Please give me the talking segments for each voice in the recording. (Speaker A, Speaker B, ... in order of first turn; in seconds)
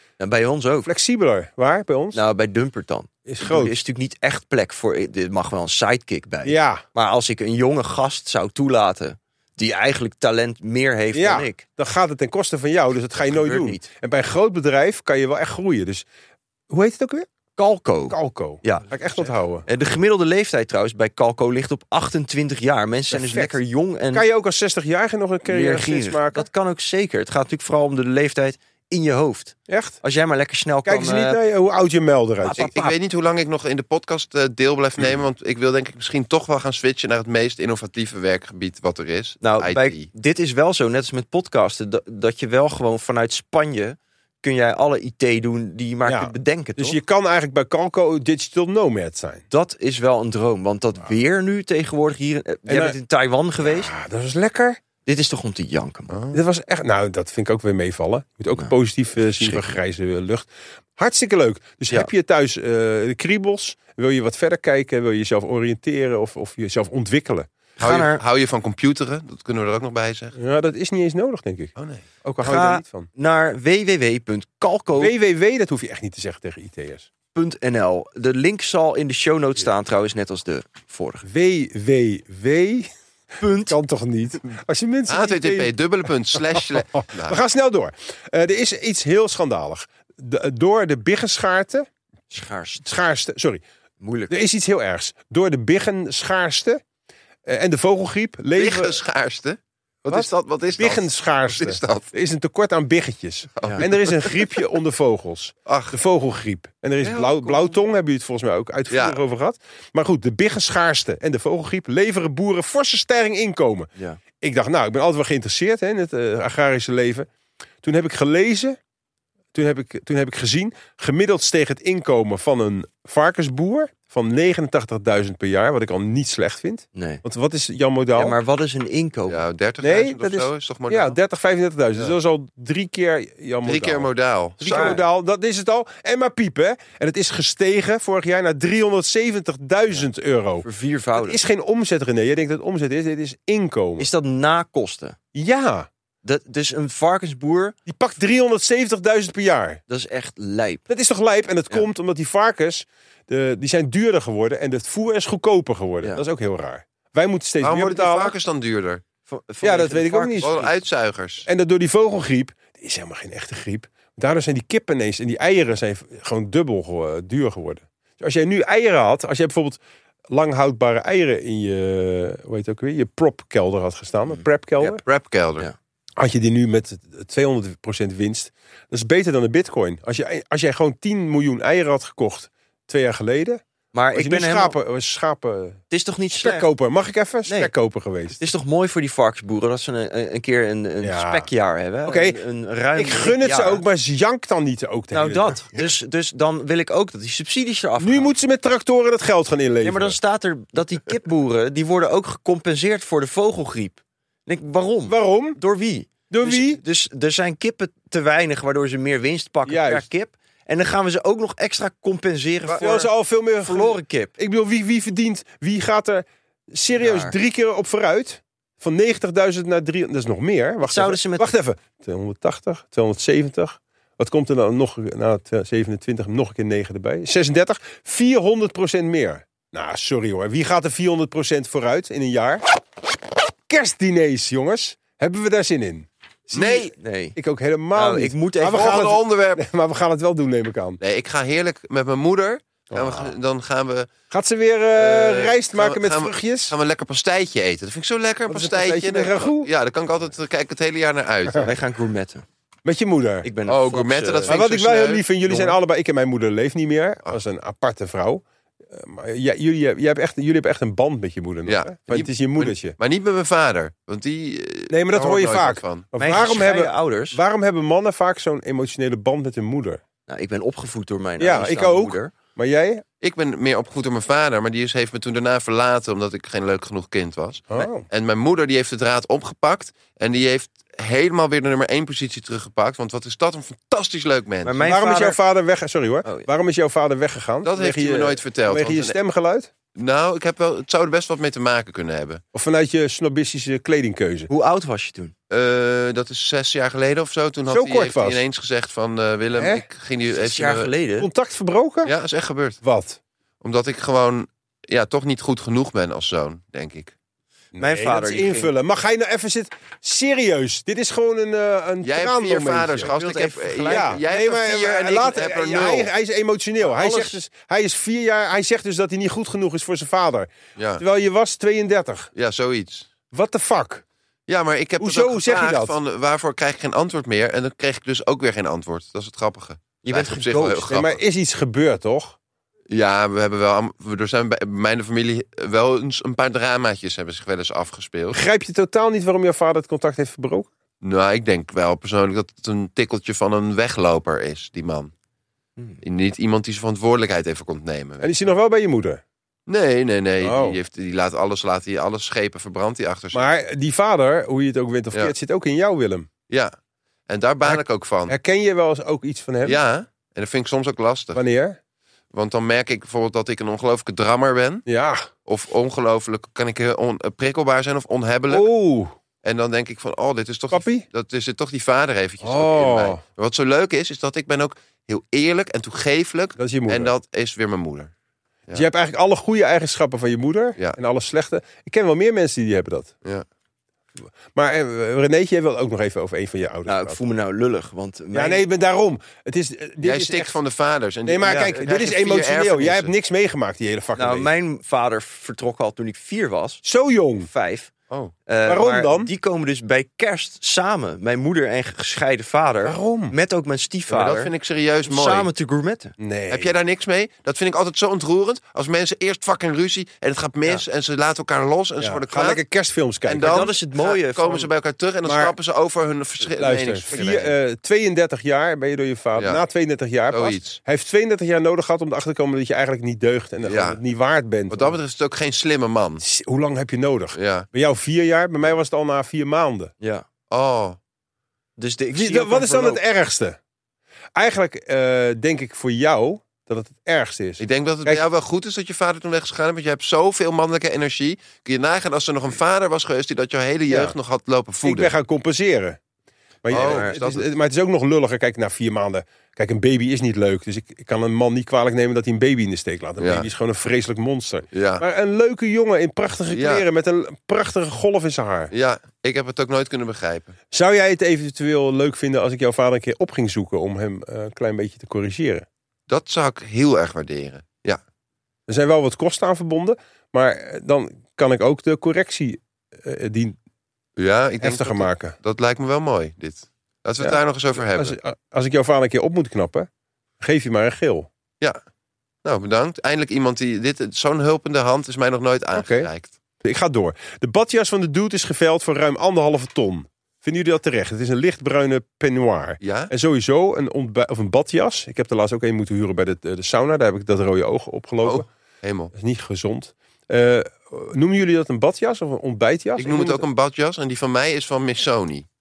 Speaker A: 0.2-0.9, 2.1-11.6, 13.2-13.8, 17.6-18.9, 19.6-24.2, 25.4-31.4, 32.4-32.9, 39.4-47.0, 49.5-53.9, 55.0-56.1, 59.4-59.7, 67.8-68.2, 72.4-75.1, 77.3-81.2, 83.4-83.8, 92.3-93.0, 94.0-94.4, 107.0-107.8, 126.9-127.2, 128.2-129.4, 134.6-135.0, 140.6-141.4, 144.0-145.2, 146.2-147.8, 149.9-150.8, 159.3-160.7, 183.9-184.8, 185.9-186.7, 188.4-193.8, 195.1-198.3, 199.8-213.1, 213.6-214.3, 216.9-217.3, 220.8-221.5, 236.9-237.3, 237.9-239.1, 251.6-252.4, 253.4-254.6, 255.5-255.8, 266.2-267.4, 270.3-272.3, 284.6-285.4, 294.5-295.3, 300.3-301.3, 307.8-308.7, 313.1-314.2, 316.8-317.3, 330.0-330.9, 386.9-388.6, 391.4-391.7, 394.1-396.8, 397.4-397.9, 398.5-404.5, 405.0-406.1, 413.4-414.7, 417.1-417.5, 431.8-433.0, 446.7-447.2
Speaker B: 0.8-2.2, 3.2-3.7, 6.4-6.8, 11.1-16.1, 16.7-17.3, 18.1-19.6, 23.1-23.6, 24.1-26.5, 29.7-30.0, 30.8-32.7, 46.0-49.4, 52.7-52.9, 53.6-54.8, 56.3-67.5, 70.3-73.1, 75.0-77.1, 81.2-82.9, 83.7-85.7, 86.3-86.7, 87.2-91.9, 92.8-93.6, 94.3-96.8, 97.4-99.0, 100.1-113.9, 114.4-117.3, 117.8-118.8, 119.5-128.4, 129.8-134.1, 134.6-140.7, 141.2-144.1, 145.3-145.9, 147.8-149.8, 150.9-158.3, 159.6-160.5, 161.4-169.8, 170.3-175.0, 176.2-183.6, 184.1-185.8, 186.4-188.4, 191.0-191.5, 192.0-192.4, 192.9-195.6, 198.0-200.2, 205.1-205.6, 206.3-206.8, 209.7-210.1, 212.7-232.6, 233.7-241.0, 242.9-243.3, 244.3-246.7, 248.5-249.7, 252.8-253.5, 254.5-262.9, 264.9-270.0, 271.4-273.0, 277.7-278.0, 284.8-289.7, 292.5-294.5, 297.7-298.4, 299.6-299.9, 301.2-302.1, 302.8-303.2, 307.8-313.1, 313.9-322.3, 323.3-324.0, 325.0-325.9, 330.9-332.4, 338.3-340.7, 348.2-349.2, 350.4-350.8, 353.3-356.3, 357.6-359.8, 361.3-361.8, 364.9-365.3, 368.5-369.1, 370.7-371.0, 372.4-373.2, 376.6-377.1, 378.7-383.1, 384.5-387.2, 388.3-390.5, 391.2-394.5, 396.8-397.5, 398.6-399.3, 402.8-403.3, 406.2-406.7, 412.0-413.7, 415.2-415.5, 416.5-425.0, 426.2-429.9, 432.1-433.6, 434.3-438.2, 443.9-444.1, 444.8-446.0, 446.6-458.7, 460.7-465.7, 468.7-473.6, 474.6-475.4, 477.2-479.9, 480.4-481.3, 485.7-486.1, 486.6-498.4, 499.1-503.4
Speaker C: 32.5-40.1, 56.1-56.4, 67.8-70.3, 71.8-72.0, 85.1-87.4, 98.5-102.1, 103.6-104.4, 105.7-106.0, 108.9-109.2, 129.3-131.2, 133.6-135.0, 157.6-159.0, 160.4-161.5, 175.0-175.7, 236.5-236.9, 238.6-239.7, 241.0-244.1, 244.9-251.7, 253.7-255.2, 261.6-266.1, 273.2-284.8, 287.6-289.2, 289.9-292.4, 295.5-300.9, 302.0-302.8, 303.6-307.1, 312.0-316.1, 320.8-321.0, 322.3-323.1, 324.5-331.2, 332.9-338.4, 341.0-345.1, 346.0-348.4, 349.7-353.4, 357.3-358.3, 359.6-361.4, 362.3-364.9, 365.4-368.7, 369.4-378.1, 390.0-393.1, 404.1-405.5, 406.5-412.6, 413.2-417.5, 420.3-420.8, 423.6-424.0, 424.7-426.2, 427.3-427.7, 430.5-431.0, 437.6-445.1, 446.7-447.5, 453.2-453.5, 454.7-455.0, 456.5-456.8, 458.7-460.6, 466.1-468.0, 474.2-478.1, 482.4-486.3, 492.8-493.1, 498.2-499.1, 503.0-505.4